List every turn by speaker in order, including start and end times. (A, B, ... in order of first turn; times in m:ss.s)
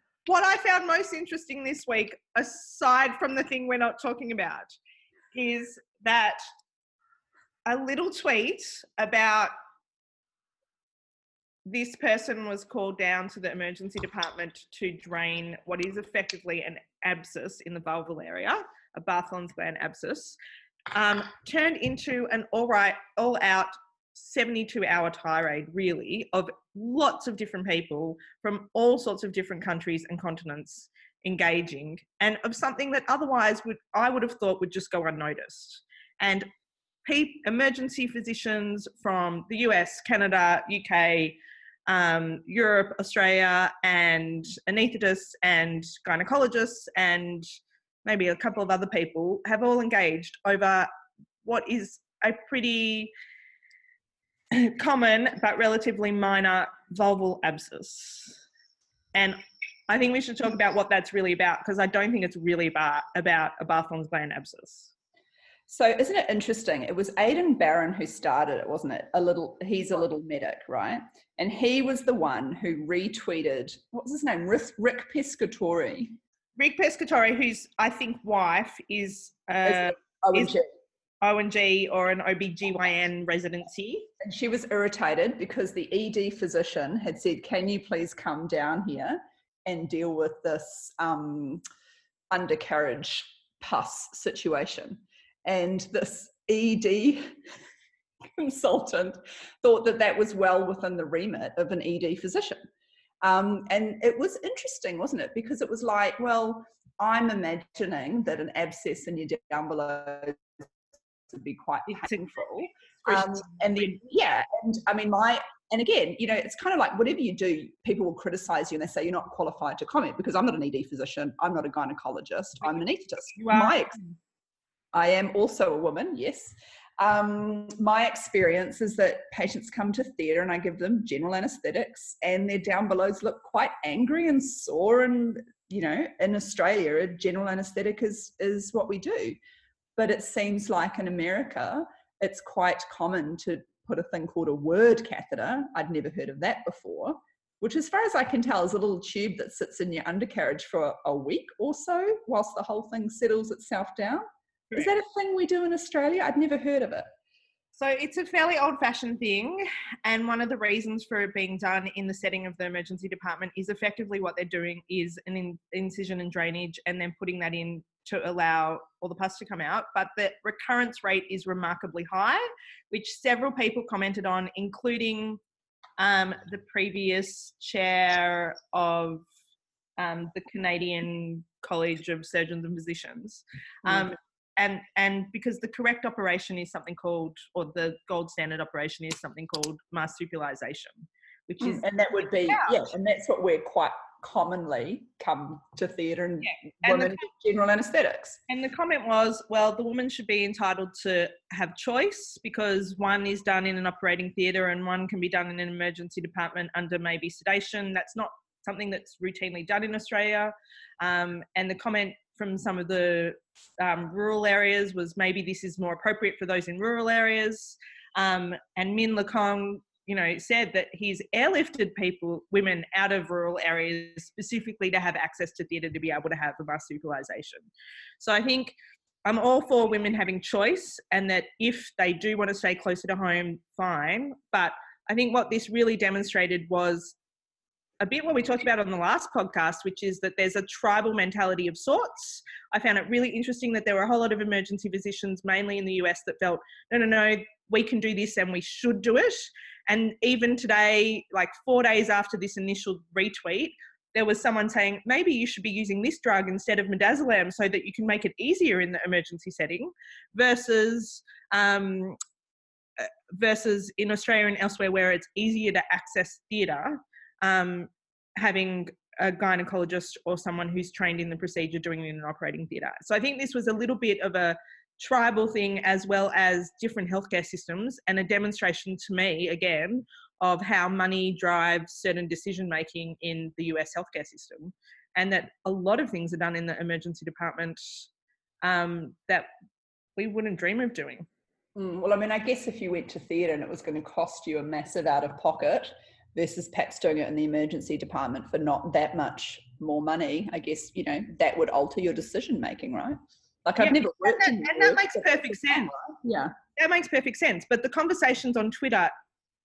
0:00.3-0:04.7 A
0:05.3-0:06.4 A
0:07.7-0:09.5 A
0:11.7-0:20.4 A
0:20.9-0:36.5 A
0:37.0-0:47.5 A
0:48.0-0:50.9 A
0:51.4-0:53.1 A
0:54.5-0:58.4 A
0:59.9-1:04.9 A
1:05.7-1:16.2 B
1:16.6-1:20.6 A
1:19.6-1:20.7 B
1:21.2-1:24.1 A
1:24.2-1:31.6 B
1:32.3-1:37.4 B
1:38.4-1:42.6 B
1:43.2-1:50.4 B
1:51.3-2:04.0 B
1:51.9-1:53.7 A
2:03.4-2:04.1 A
2:04.9-2:19.4 B
2:20.0-2:37.1 B
2:37.7-2:55.4 A
2:56.0-2:59.3 A
3:00.0-3:12.8 A
3:11.6-3:18.4 B
3:16.4-3:17.2 A
3:18.5-3:57.2 A
3:58.0-4:22.2 A
4:23.0-4:48.0 A
4:48.6-4:49.5 A
4:50.2-4:51.3 A
4:51.8-5:06.5 B
5:03.8-5:05.9 A
5:06.8-5:09.1 A